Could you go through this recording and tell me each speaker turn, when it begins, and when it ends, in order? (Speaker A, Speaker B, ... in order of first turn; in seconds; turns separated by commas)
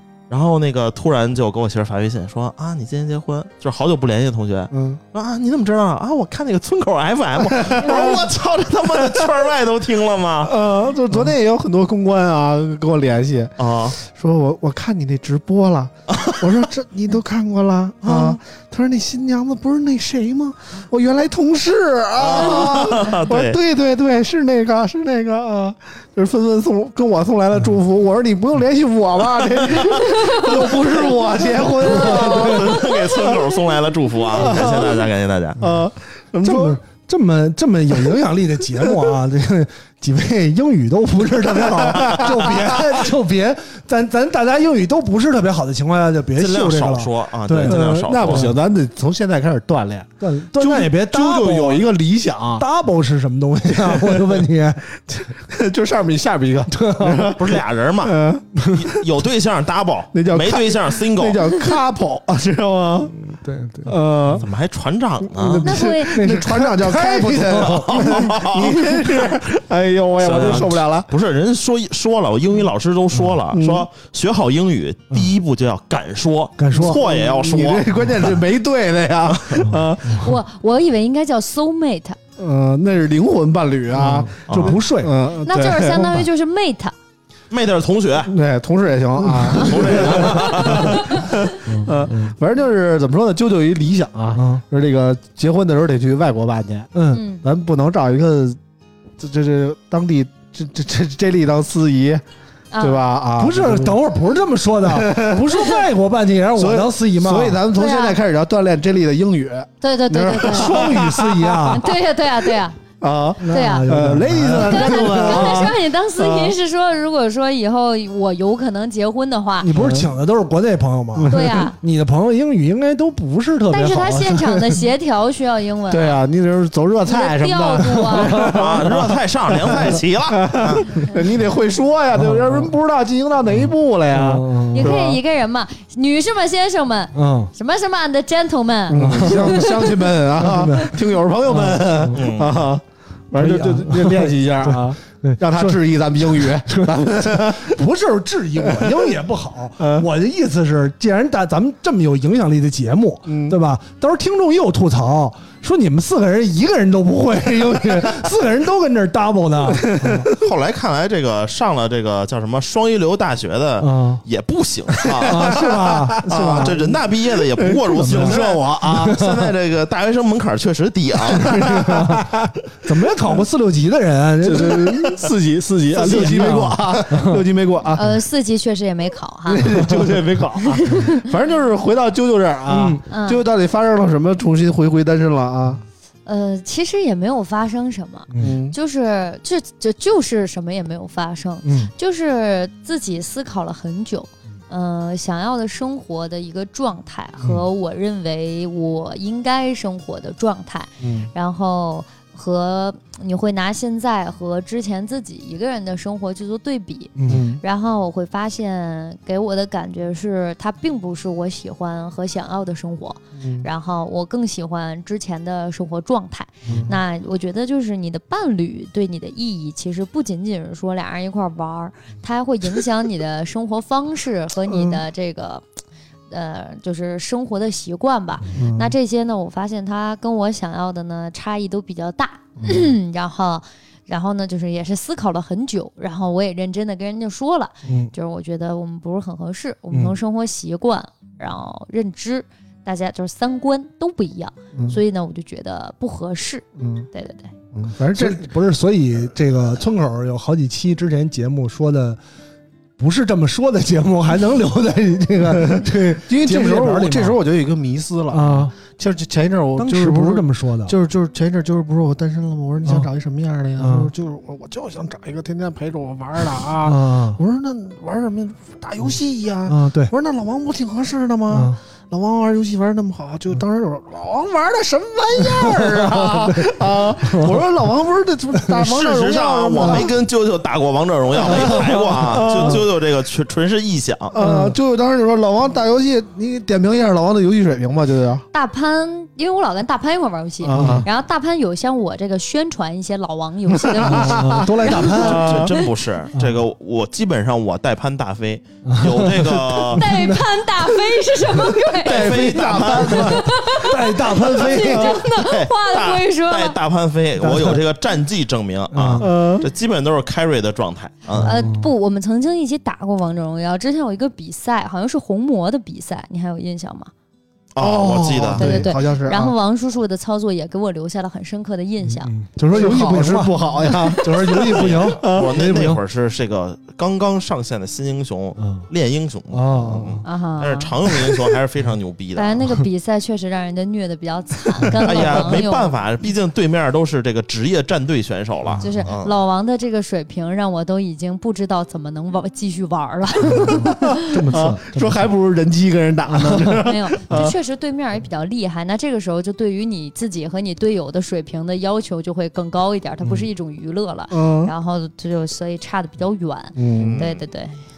Speaker A: 0.3-10.6, Speaker B: 4.7-5.0, Speaker B: 7.5-8.3, Speaker B: 10.4-33.5, Speaker A: 13.6-14.0, Speaker A: 16.1-16.4, Speaker A: 18.0-18.4, Speaker A: 22.2-23.6, Speaker A: 29.6-30.8, Speaker C: 30.2-30.5, Speaker A: 31.8-35.6, Speaker D: 31.9-32.7, Speaker B: 34.3-35.0, Speaker B: 35.6-36.8, Speaker D: 36.4-48.5, Speaker B: 41.4-43.0, Speaker A: 42.0-42.3, Speaker A: 46.3-48.5, Speaker B: 47.6-52.6, Speaker D: 50.2-51.9, Speaker D: 52.6-54.9, Speaker B: 53.7-54.5, Speaker B: 55.0-58.6, Speaker D: 56.7-57.3, Speaker A: 57.3-61.5, Speaker B: 60.1-63.1, Speaker D: 63.1-63.9, Speaker B: 63.8-64.5, Speaker A: 64.3-65.7, Speaker B: 65.2-71.1, Speaker C: 65.6-66.2, Speaker D: 66.0-68.4, Speaker A: 67.5-68.8, Speaker A: 70.2-77.9, Speaker B: 73.5-73.9, Speaker D: 76.6-77.0, Speaker B: 76.7-80.3, Speaker A: 79.3-79.7, Speaker D: 79.6-80.2, Speaker C: 80.1-82.2, Speaker B: 82.4-86.3, Speaker D: 83.9-85.1, Speaker A: 84.5-84.8, Speaker C: 85.4-86.9, Speaker A: 87.5-88.3, Speaker B: 88.2-96.9, Speaker A: 89.5-91.1, Speaker D: 89.9-91.0, Speaker D: 91.7-92.3, Speaker D: 94.3-94.6, Speaker D: 96.9-97.2, Speaker C: 97.1-97.4, Speaker B: 97.4-98.6, Speaker B: 99.2-102.2, Speaker C: 102.7-103.0, Speaker B: 102.8-104.0, Speaker D: 103.4-107.6, Speaker B: 104.8-105.5, Speaker B: 106.5-111.8, Speaker C: 107.7-108.2, Speaker C: 109.8-110.9, Speaker D: 110.5-111.9, Speaker C: 111.7-112.8, Speaker B: 113.0-116.5, Speaker D: 113.4-115.7, Speaker C: 113.5-113.9, Speaker C: 114.6-119.7, Speaker D: 119.6-124.8, Speaker B: 119.7-120.1, Speaker B: 121.1-121.7, Speaker C: 121.3-121.8, Speaker C: 123.7-126.2, Speaker B: 125.9-135.2, Speaker C: 127.0-128.5, Speaker D: 128.2-128.6, Speaker A: 128.4-130.9, Speaker D: 132.2-132.7, Speaker D: 133.6-135.0, Speaker C: 134.7-139.9, Speaker D: 137.1-137.5, Speaker B: 138.9-147.8, Speaker D: 139.0-139.7, Speaker D: 140.4-140.9, Speaker D: 141.4-142.2, Speaker A: 142.1-142.6, Speaker D: 143.4-160.3, Speaker B: 148.7-149.1, Speaker B: 149.8-150.1, Speaker B: 153.3-153.6, Speaker B: 157.7-158.2, Speaker B: 159.6-160.3, Speaker A: 160.3-171.6, Speaker D: 163.8-164.2, Speaker B: 165.1-169.2, Speaker D: 165.2-166.8, Speaker D: 167.9-168.4, Speaker D: 168.9-169.4, Speaker B: 171.3-172.5, Speaker D: 171.5-172.2, Speaker D: 172.8-175.2, Speaker B: 174.4-178.1, Speaker D: 175.9-177.4, Speaker C: 177.9-179.8, Speaker B: 179.5-185.8, Speaker C: 180.9-181.2, Speaker D: 182.7-183.0, Speaker C: 183.1-183.4, Speaker C: 186.2-225.6, Speaker D: 188.3-188.6, Speaker B: 188.4-188.8, Speaker D: 191.6-191.9, Speaker B: 201.0-201.3, Speaker D: 207.2-207.4, Speaker B: 207.3-207.6, Speaker B: 213.4-213.7, Speaker B: 216.7-216.9, Speaker D: 216.7-216.9, Speaker B: 224.7-225.0, Speaker C: 226.3-247.5, Speaker B: 228.5-228.9, Speaker B: 232.6-232.9, Speaker D: 237.8-238.1, Speaker D: 239.9-240.2, Speaker B: 244.7-245.0, Speaker B: 246.8-247.1, Speaker B: 247.7-248.5, Speaker D: 248.1-252.2, Speaker D: 253.0-257.4, Speaker B: 255.4-280.1, Speaker D: 258.3-258.7, Speaker D: 259.8-260.9, Speaker D: 263.8-264.1, Speaker D: 266.8-267.4, Speaker D: 269.7-270.1, Speaker D: 271.5-271.8, Speaker D: 275.5-277.6, Speaker A: 278.8-284.4, Speaker B: 281.3-282.9, Speaker D: 282.4-282.8, Speaker B: 284.3-288.4, Speaker D: 284.4-284.8, Speaker C: 288.5-295.9, Speaker B: 290.6-291.1, Speaker D: 290.7-291.1, Speaker B: 293.8-295.7, Speaker D: 294.0-295.6, Speaker A: 295.0-300.1, Speaker D: 298.9-300.4, Speaker C: 299.9-306.8, Speaker B: 301.9-303.6, Speaker A: 302.0-303.4, Speaker D: 303.7-305.2, Speaker A: 305.0-311.6, Speaker D: 307.4-307.8, Speaker D: 308.9-309.3, Speaker B: 309.2-309.7, Speaker D: 311.3-311.9, Speaker C: 311.4-317.1, Speaker A: 317.7-318.7, Speaker B: 317.8-319.5, Speaker C: 318.6-322.3, Speaker D: 322.1-326.0, Speaker B: 322.7-325.6, Speaker A: 324.5-332.6, Speaker D: 328.6-328.9, Speaker D: 329.5-330.2, Speaker C: 330.2-330.9, Speaker C: 332.4-335.9, Speaker A: 335.0-339.3, Speaker C: 338.8-344.4, Speaker D: 343.6-345.2, Speaker B: 343.6-347.5, Speaker D: 346.4-346.8, Speaker C: 346.8-357.8, Speaker B: 354.3-354.7, Speaker B: 356.8-357.2, Speaker A: 357.0-357.4